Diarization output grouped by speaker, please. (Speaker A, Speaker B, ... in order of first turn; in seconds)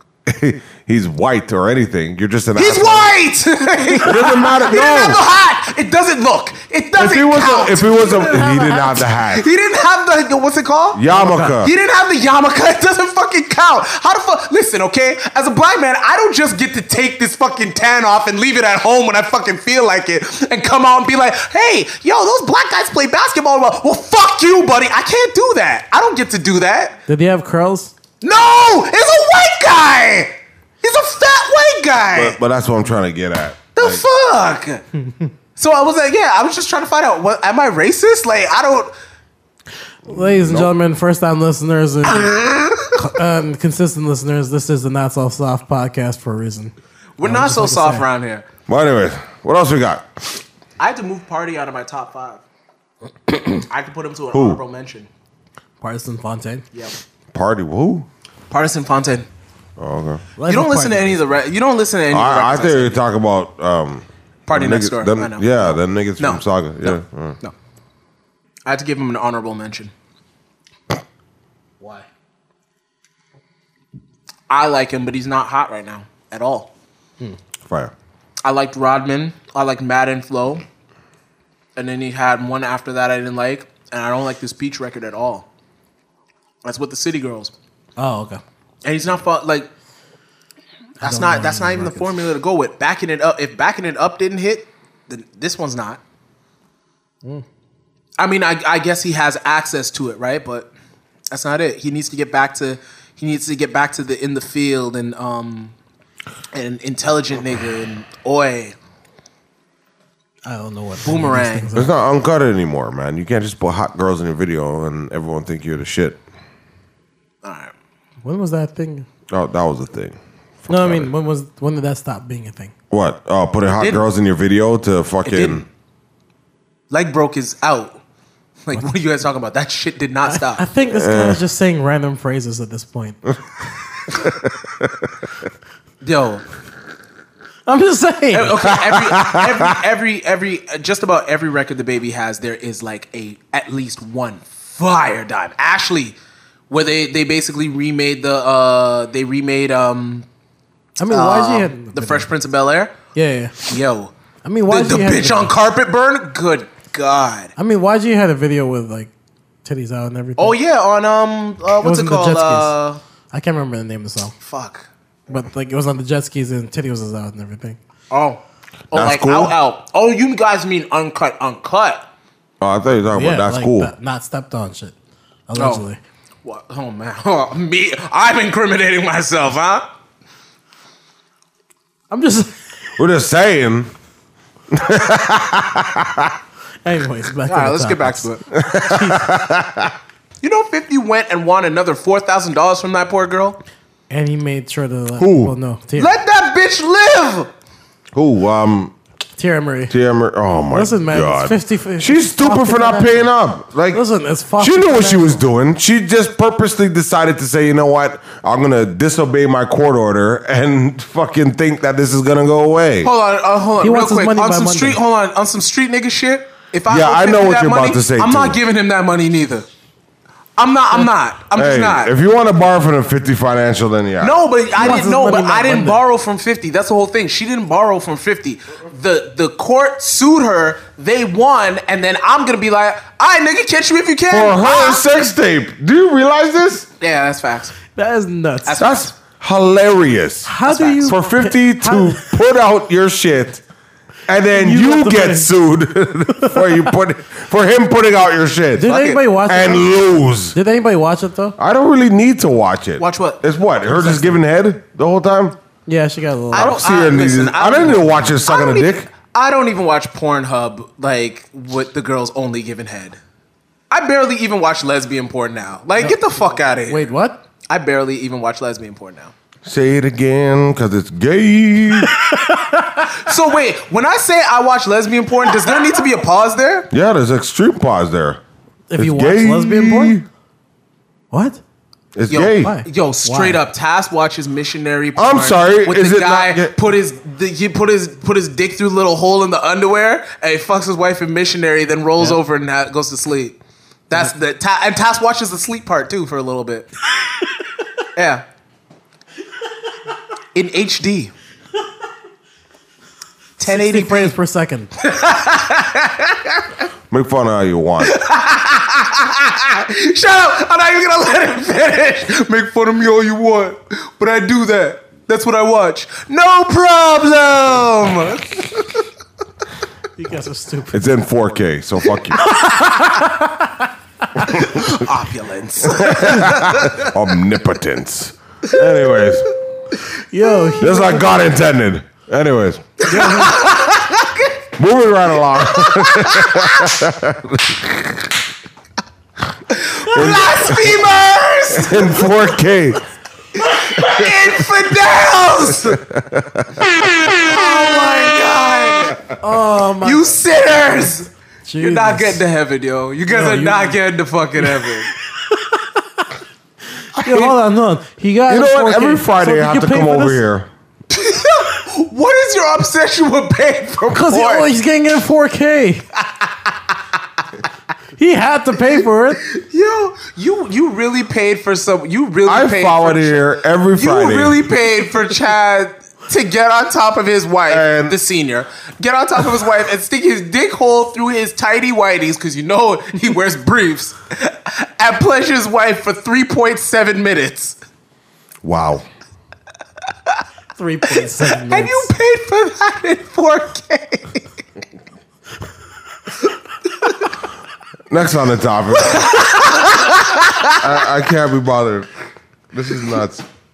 Speaker A: 0.3-3.1, 4.0-5.2, 7.0-9.5, 10.9-11.7, 32.1-34.0, 40.1-40.7, 48.7-50.3, 54.3-54.6, 57.3-58.1, 59.8-60.2, 62.1-67.4, 77.7-77.9, 111.7-116.2, 119.3-121.1, 122.9-125.7, 130.9-131.4, 134.3-135.1, 138.7-139.7, 168.9-169.6, 172.6-173.9, 183.0-183.9, 184.7-186.4, 188.5-189.9, 195.2-195.5, 198.1-198.9, 199.9-204.0, 204.6-213.1, 216.9-218.6, 221.5-224.4, 234.3-236.9, 238.8-243.6, 244.3-248.9, 249.4-250.6, 251.6-255.6, 256.5-259.1, 269.6-272.2, 276.9-278.4, 279.0-280.2, 282.1-282.8, 285.2-286.8, 307.1-308.1, 320.9-322.4, 326.0-329.5, 330.8-333.1, 334.8-338.4, 340.1-341.0, 341.7-343.0, 345.8-346.9, 357.2-357.6, 358.5-360.7, 372.5-374.7, 377.7-378.2, 388.6-389.1, 398.1-399.6, 400.8-402.1, 402.7-403.5
Speaker B: 2.5-8.5, 9.3-27.0, 28.2-32.4, 33.8-34.9, 35.6-38.9, 42.1-43.0, 47.2-48.5, 50.8-52.4, 53.6-55.1, 58.5-59.3, 60.5-63.0, 64.5-67.5, 68.7-69.9, 74.5-76.7, 78.4-80.6, 81.8-85.5, 86.7-87.5, 88.8-89.7, 91.0-96.0, 98.2-100.7, 101.3-105.8, 106.5-108.8, 111.0-111.7, 117.4-117.7, 125.3-125.7, 126.9-128.0, 128.7-130.7, 136.0-136.4, 138.3-146.2, 146.7-150.3, 151.1-152.9, 153.6-154.1, 154.7-157.5, 160.4-163.0, 164.4-164.9, 168.1-168.4, 168.9-172.1, 175.6-175.8, 176.4-179.8, 187.5-188.4, 190.4-193.6, 196.0-197.5, 213.0-219.7, 220.6-222.1, 224.2-235.0, 237.0-237.8, 238.7-239.1, 240.7-241.2, 248.8-249.2, 253.0-253.4, 256.5-263.2, 263.9-267.0, 267.7-269.3, 273.1-276.9, 282.3-293.6, 294.1-296.9, 298.1-298.4, 300.6-301.3, 303.6-304.4, 305.0-306.7, 308.0-318.9, 324.5-327.1, 333.0-334.6, 335.6-337.0, 339.7-342.5, 343.6-346.0, 347.3-349.3, 350.0-355.1, 361.1-364.7, 366.2-367.0, 369.5-387.8, 391.4-394.4, 397.0-397.3, 398.9-400.9
Speaker C: 7.9-9.1, 11.1-11.6, 27.1-27.9, 35.1-35.3, 40.0-42.4, 42.9-48.0, 55.8-56.6, 60.4-61.2, 71.8-72.0, 88.0-88.4, 91.0-92.2, 110.5-111.9, 118.2-119.1, 120.7-122.7, 130.3-133.3, 137.7-138.7, 151.0-152.3, 153.2-153.7, 154.4-155.5, 157.6-159.1, 159.6-160.6, 161.8-162.7, 163.3-164.3, 165.3-167.8, 173.1-174.9, 175.5-176.0, 182.1-182.5, 186.8-189.4, 194.1-196.2, 199.4-199.9, 200.7-203.3, 203.9-205.4, 213.8-215.0, 224.7-226.0, 237.9-238.9, 240.5-242.3, 244.5-245.5, 246.4-246.8, 248.8-250.0, 250.5-251.6, 254.0-254.3, 255.9-256.8, 266.9-267.4, 272.0-273.2, 278.9-280.2, 281.3-281.6, 282.5-283.6, 303.6-304.9, 320.2-321.0, 322.4-323.9, 330.3-331.5, 333.1-333.6, 349.4-350.4, 351.7-352.4, 353.3-354.0, 354.6-356.2, 357.2-360.4, 364.1-366.1, 368.2-369.4, 390.8-392.1